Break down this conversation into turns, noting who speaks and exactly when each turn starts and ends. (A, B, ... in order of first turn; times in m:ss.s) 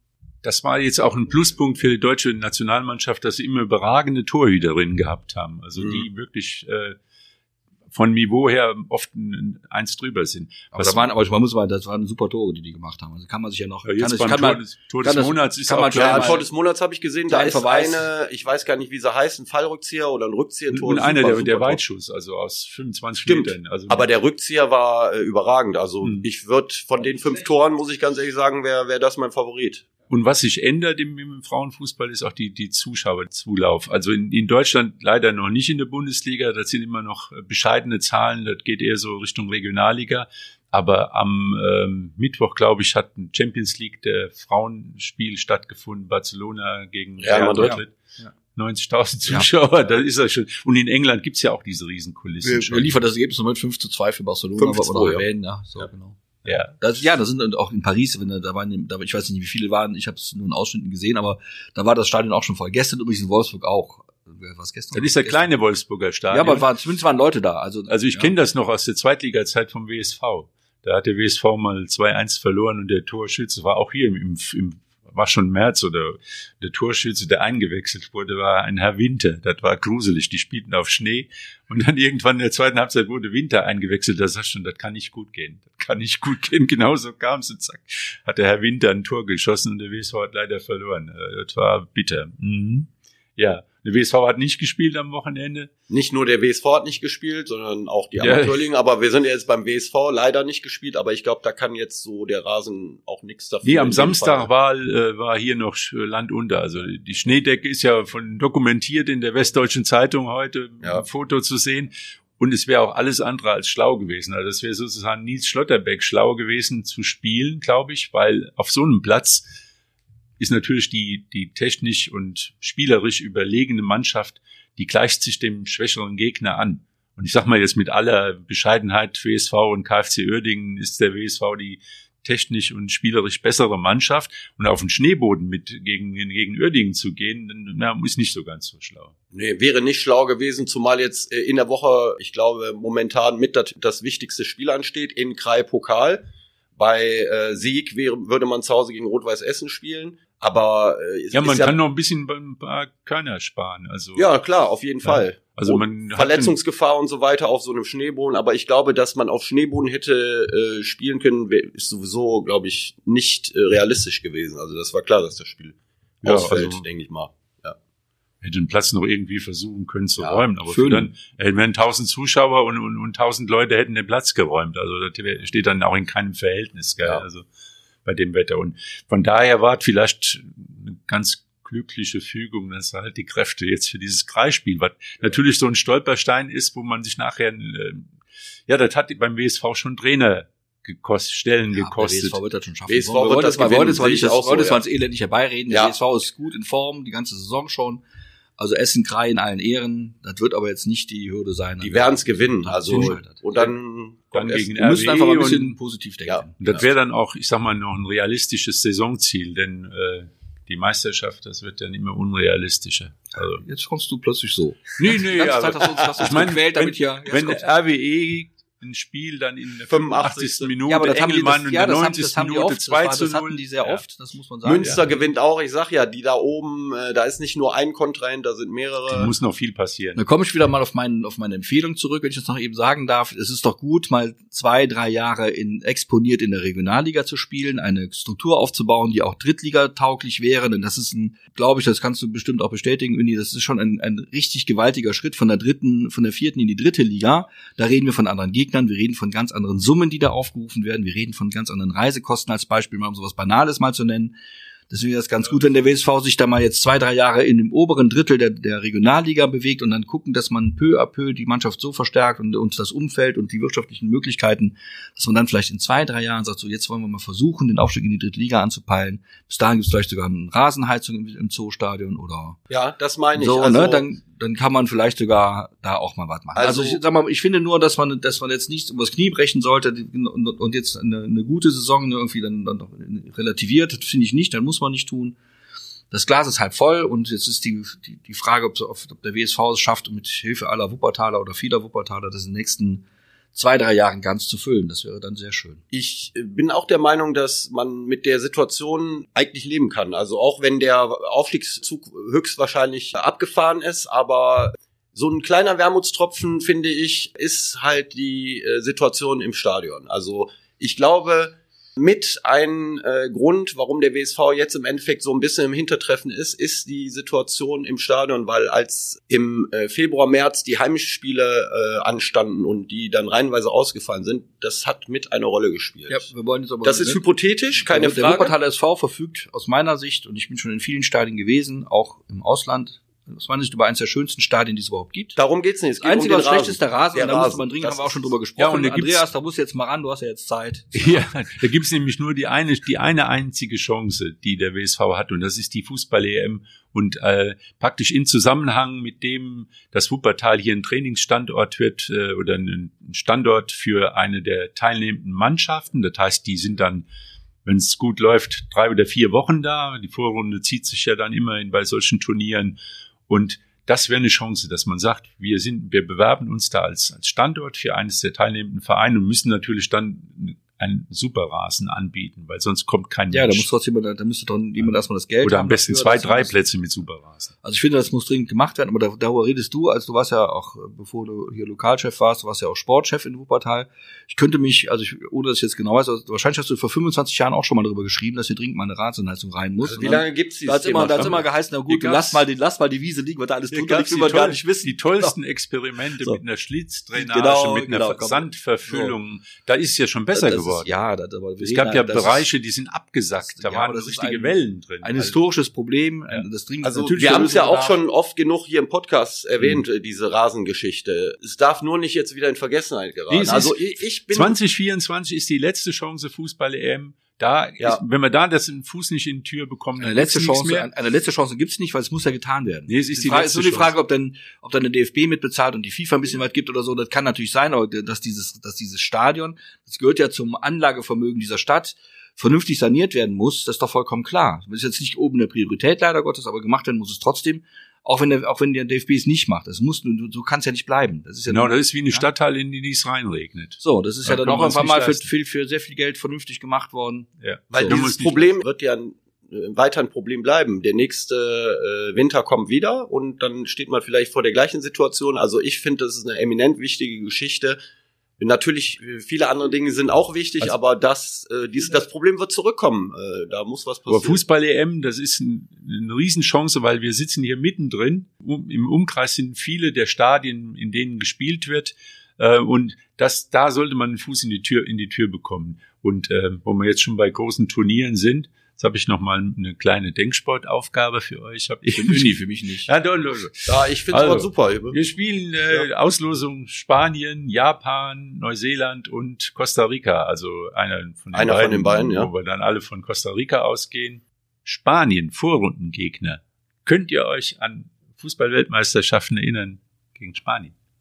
0:00.4-0:07.0 A
0:05.8-0:06.1 B
0:07.9-0:11.1 A
0:10.7-0:16.4 C
0:13.8-0:16.4 A
0:16.0-0:21.8 B
0:17.3-0:18.1 C
0:20.7-0:24.1 A
0:23.2-0:29.9 B
0:30.1-0:47.9 A
0:47.2-0:47.8 B
0:47.6-0:48.3 C
0:48.6-0:52.9 A
0:52.4-0:56.2 C
0:54.6-0:55.3 B
0:56.4-0:56.8 A
0:56.8-1:05.5 C
1:04.9-1:06.7 A
1:06.3-1:08.3 C
1:07.9-1:35.7 A
1:35.9-1:44.5 B
1:38.2-1:38.6 A
1:43.6-1:59.5 A
2:00.4-2:19.1 A
2:19.3-2:26.2 B
2:26.8-2:31.8 B
2:31.3-2:34.3 A
2:34.2-2:47.8 B
2:35.0-2:36.5 A
2:46.2-2:46.8 A
2:48.4-2:57.5 A
2:50.7-2:51.1 C
2:58.0-3:08.1 A
3:08.7-3:12.4 A
3:11.8-3:18.0 C
3:12.9-3:14.8 B
3:18.6-3:23.4 C
3:21.8-3:24.7 B
3:22.9-3:23.7 A
3:24.3-3:25.8 A
3:24.8-3:26.6 C
3:26.3-3:26.8 B
3:26.6-3:33.6 A
3:33.6-3:37.6 C
3:35.0-3:44.0 A
3:39.9-3:40.7 B
3:40.9-3:45.0 C
3:44.6-3:49.3 B
3:49.1-3:50.2 A
3:50.2-4:14.4 C
4:14.9-4:32.6 C
4:32.7-4:34.1 B
4:33.4-4:45.4 C
4:36.6-4:37.0 B
4:46.1-4:55.8 C
4:55.9-5:26.3 B
5:26.1-5:27.2 C
5:26.8-5:28.6 B
5:27.7-5:35.4 C
5:35.4-5:38.3 B
5:36.0-5:41.3 C
5:38.6-5:39.3 A
5:41.0-5:57.1 A
5:57.6-6:02.8 A
6:03.3-6:13.7 A
6:13.3-6:16.5 C
6:14.8-6:17.5 A
6:17.6-6:35.4 C
6:29.8-6:31.4 B
6:31.9-6:32.4 A
6:33.7-6:40.9 A
6:37.1-6:39.2 C
6:40.3-6:42.4 C
6:41.6-6:45.4 A
6:43.4-6:48.0 C
6:46.8-6:54.6 B
6:53.3-7:00.9 A
7:00.0-7:22.2 C
7:02.9-7:03.9 A
7:21.5-7:25.3 A
7:23.8-7:28.0 C
7:27.4-7:28.6 A
7:27.7-7:37.8 B
7:38.4-7:44.4 B
7:44.1-8:20.7 A
8:01.9-8:02.9 C
8:03.7-8:05.0 B
8:11.3-8:12.3 B